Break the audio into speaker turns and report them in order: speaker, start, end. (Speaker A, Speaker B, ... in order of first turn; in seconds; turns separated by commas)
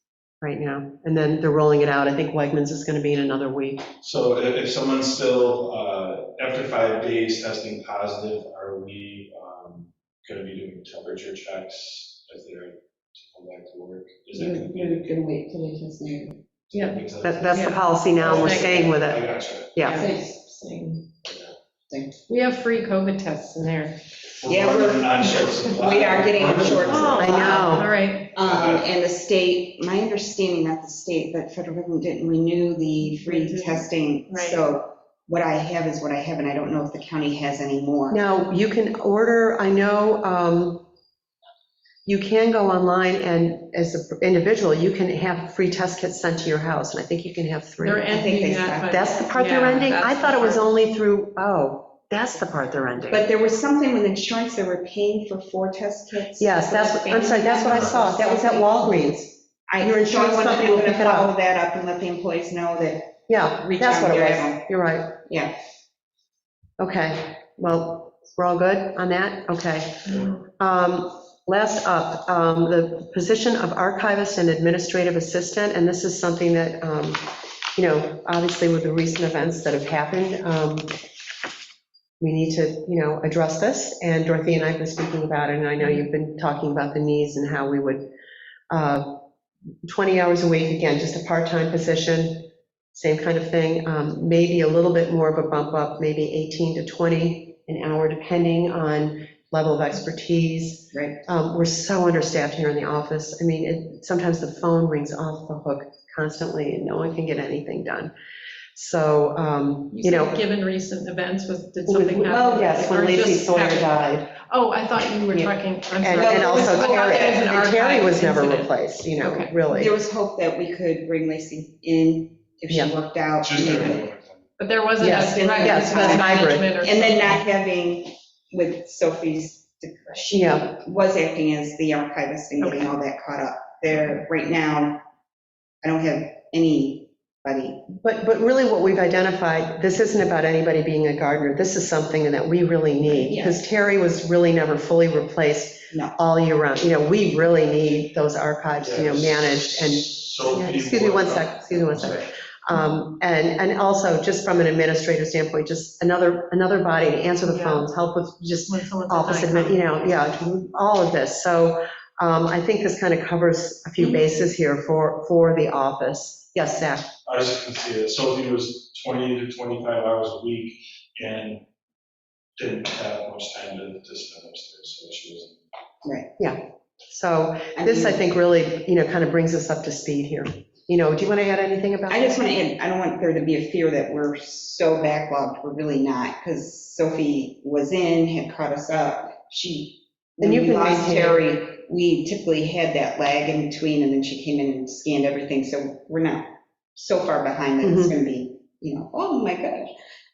Speaker A: 0.4-3.8, Speaker B: 4.0-15.2, Speaker C: 14.3-16.4, Speaker B: 16.7-19.8, Speaker A: 17.2-20.0, Speaker D: 17.5-18.8, Speaker D: 19.8-21.0, Speaker C: 19.9-20.4, Speaker B: 21.2-21.5, Speaker C: 21.9-22.2, Speaker D: 22.3-24.0, Speaker B: 24.4-27.4, Speaker C: 24.5-38.2, Speaker D: 26.9-28.3, Speaker A: 27.2-27.9, Speaker B: 28.4-28.9, Speaker D: 33.2-34.7, Speaker A: 38.1-40.8, Speaker A: 42.0-48.1, Speaker D: 47.8-50.7, Speaker C: 48.1-49.1, Speaker A: 48.9-53.2, Speaker C: 53.1-59.1, Speaker A: 56.4-61.3, Speaker C: 59.7-64.7, Speaker A: 63.3-65.2, Speaker C: 65.2-65.5, Speaker A: 66.8-80.9, Speaker A: 82.2-88.1, Speaker D: 85.8-86.0, Speaker A: 88.7-89.2, Speaker A: 89.8-108.1, Speaker A: 108.7-110.4, Speaker D: 109.9-119.5, Speaker A: 111.8-114.3, Speaker C: 115.3-117.5, Speaker A: 116.0-119.9, Speaker C: 119.7-124.0, Speaker B: 123.4-124.4, Speaker D: 124.6-127.4, Speaker A: 125.0-126.7, Speaker C: 125.0-135.0, Speaker A: 130.2-130.7, Speaker D: 132.6-132.9, Speaker C: 135.8-137.8, Speaker A: 137.9-167.1, Speaker C: 143.2-143.6, Speaker B: 148.8-152.3, Speaker D: 157.4-157.9, Speaker D: 158.7-160.0, Speaker D: 164.0-164.2, Speaker B: 167.2-171.6, Speaker B: 172.6-175.6, Speaker A: 176.4-182.5, Speaker C: 177.8-178.2, Speaker C: 182.1-199.9, Speaker A: 190.4-191.4, Speaker A: 197.8-198.1